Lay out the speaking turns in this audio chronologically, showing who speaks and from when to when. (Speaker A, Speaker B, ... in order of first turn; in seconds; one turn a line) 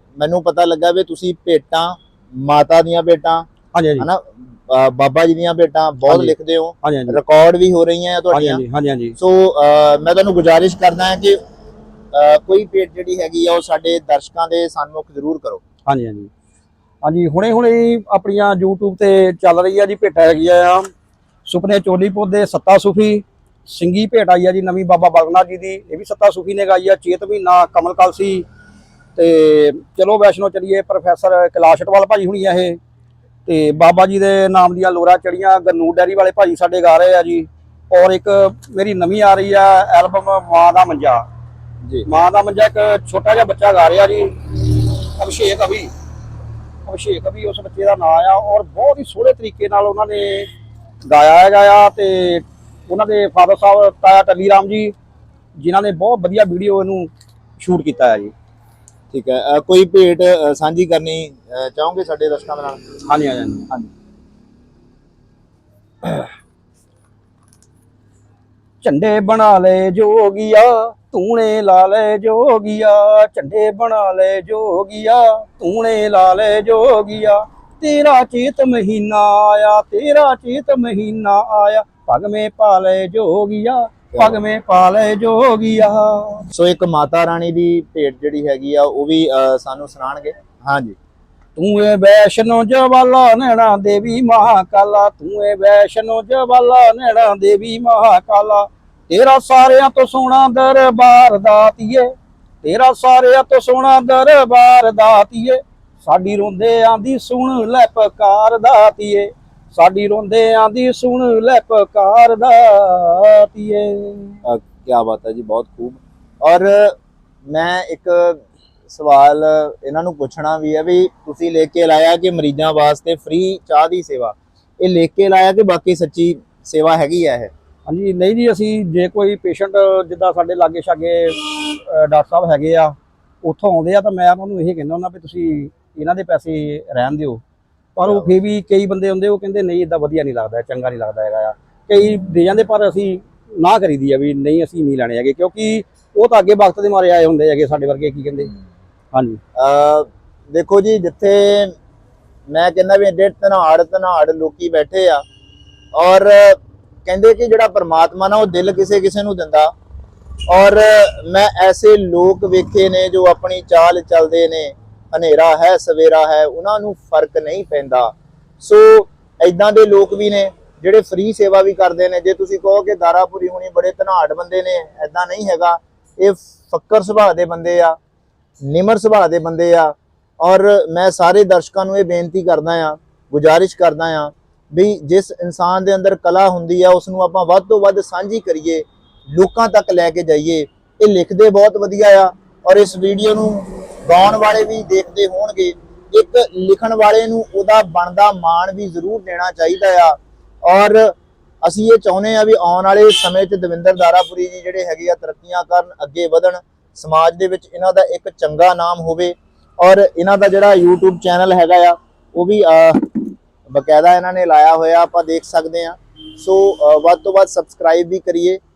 Speaker A: 0.2-3.5
Speaker B: 3.7-4.1
Speaker A: 4.0-8.6
Speaker B: 6.1-7.2
Speaker B: 8.3-9.2
Speaker A: 9.2-11.4
Speaker A: 12.1-15.6
Speaker B: 15.9-16.3
Speaker B: 17.0-20.9
Speaker B: 21.4-28.4
Speaker B: 29.1-32.8
Speaker B: 33.5-41.2
Speaker B: 42.0-45.9
Speaker B: 46.8-50.5
Speaker B: 51.0-54.9
Speaker B: 55.6-58.3
Speaker A: 59.1-62.9
Speaker B: 63.0-63.7
Speaker B: 68.8-86.5
Speaker A: 84.1-84.4
Speaker A: 86.5-91.0
Speaker B: 91.5-102.1
Speaker B: 102.6-114.4
Speaker A: 114.4-117.0
Speaker A: 117.5-127.5
Speaker B: 127.9-137.4
Speaker B: 137.9-148.5
Speaker A: 138.1-138.3
Speaker B: 149.1-149.4
Speaker A: 149.6-151.7
Speaker A: 152.5-155.2
Speaker A: 155.9-159.7
Speaker A: 160.5-177.9
Speaker A: 178.6-201.1
Speaker A: 201.6-218.6